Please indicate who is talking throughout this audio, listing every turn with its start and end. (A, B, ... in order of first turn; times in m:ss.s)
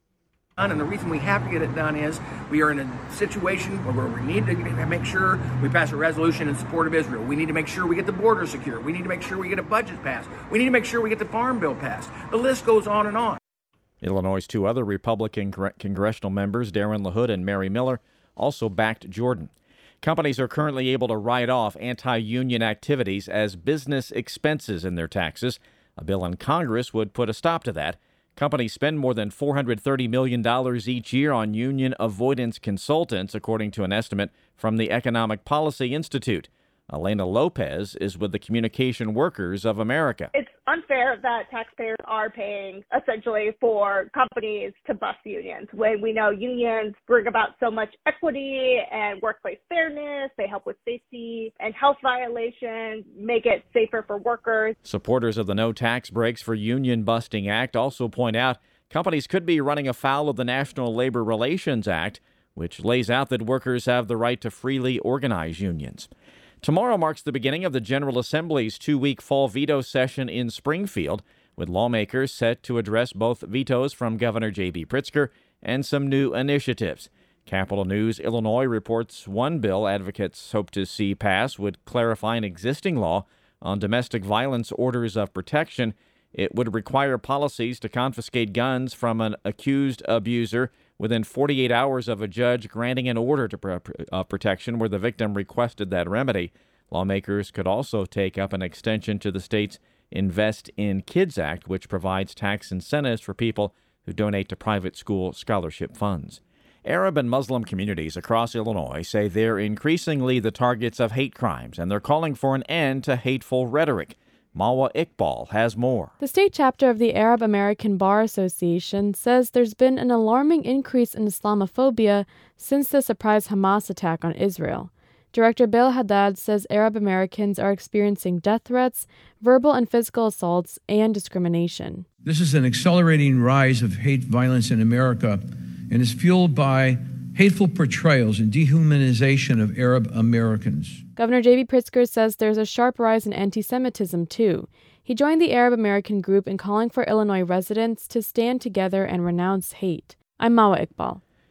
0:00.6-0:13.4 A
0:14.0-0:40.3 B
0:40.3-0:54.7 C
0:54.8-1:06.1 B
1:06.6-1:56.1 B
1:56.2-2:12.0 D
2:12.2-2:21.0 E
2:21.2-2:31.2 D